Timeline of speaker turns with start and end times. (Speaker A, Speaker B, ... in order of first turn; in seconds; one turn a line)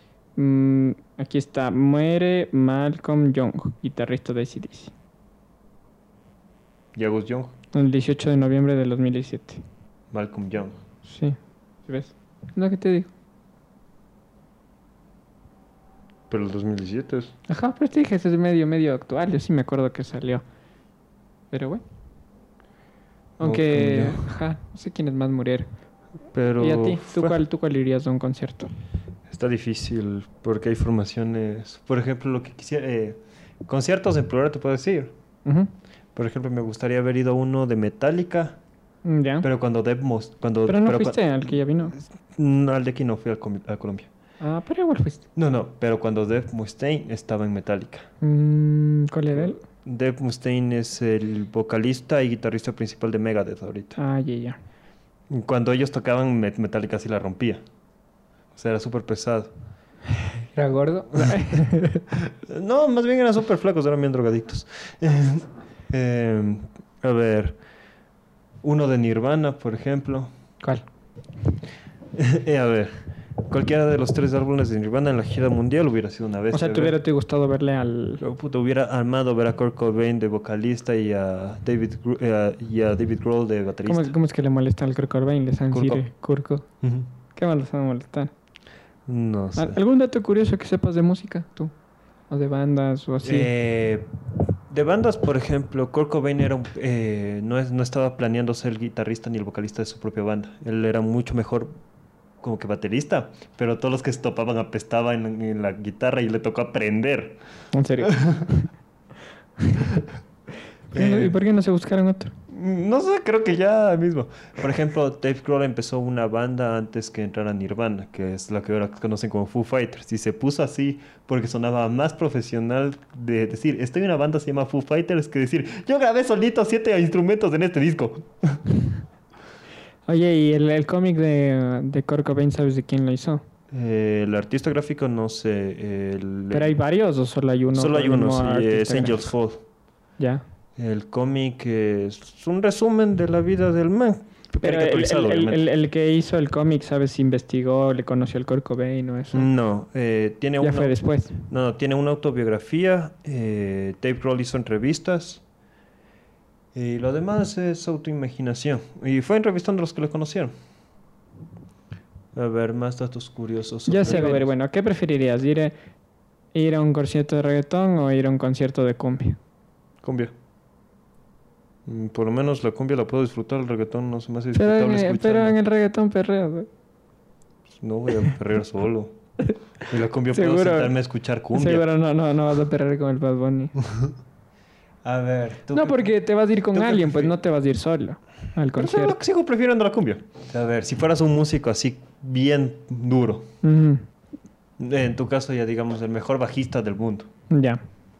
Speaker A: 0.4-4.9
Speaker B: 6.9-7.5
Speaker A: 7.7-9.6
Speaker B: 10.1-10.8
Speaker A: 11.0-13.1
Speaker B: 16.3-17.3
Speaker A: 17.5-20.4
Speaker A: 21.5-21.8
Speaker A: 23.4-25.7
Speaker B: 23.4-24.3
Speaker B: 26.3-27.4
Speaker A: 26.6-28.7
Speaker B: 29.3-35.1
Speaker A: 35.4-35.7
Speaker B: 36.1-38.6
Speaker A: 39.0-39.5
Speaker B: 39.4-44.1
Speaker A: 40.6-42.0
Speaker A: 44.4-45.2
Speaker B: 45.4-48.1
Speaker A: 48.2-49.6
Speaker B: 49.3-54.0
Speaker A: 54.0-54.6
Speaker B: 55.3-57.6
Speaker B: 58.5-59.5
Speaker A: 60.5-62.0
Speaker B: 61.1-67.6
Speaker B: 68.6-70.3
Speaker B: 72.1-72.9
Speaker B: 73.5-76.9
Speaker A: 76.5-78.2
Speaker B: 78.2-84.1
Speaker A: 83.9-86.6
Speaker B: 85.7-86.0
Speaker B: 86.8-87.1
Speaker A: 87.3-88.3
Speaker B: 89.1-89.8
Speaker A: 89.5-91.7
Speaker A: 92.3-93.5
Speaker B: 93.2-94.1
Speaker B: 94.7-101.7
Speaker B: 102.4-107.4
Speaker A: 107.7-108.7
Speaker B: 108.0-108.5
Speaker A: 109.6-109.9
Speaker A: 110.9-112.3
Speaker B: 110.9-111.3
Speaker B: 112.5-128.7
Speaker A: 130.1-133.4
Speaker B: 133.7-136.7
Speaker A: 136.5-139.3
Speaker B: 137.7-139.6
Speaker B: 140.8-145.6
Speaker A: 144.6-149.5
Speaker B: 149.3-155.4
Speaker A: 150.6-151.3
Speaker B: 156.7-160.5
Speaker B: 162.3-164.5
Speaker A: 163.9-165.7
Speaker A: 166.5-169.4
Speaker B: 170.0-170.3
Speaker B: 171.9-175.6
Speaker A: 174.5-176.7
Speaker B: 177.7-179.1
Speaker B: 179.9-181.8
Speaker A: 180.3-180.9
Speaker A: 181.5-183.8
Speaker B: 183.8-184.1
Speaker B: 185.0-186.1
Speaker A: 185.7-189.2
Speaker B: 186.7-187.3
Speaker B: 188.8-193.5
Speaker A: 193.6-194.1
Speaker B: 194.8-197.3
Speaker A: 197.5-197.8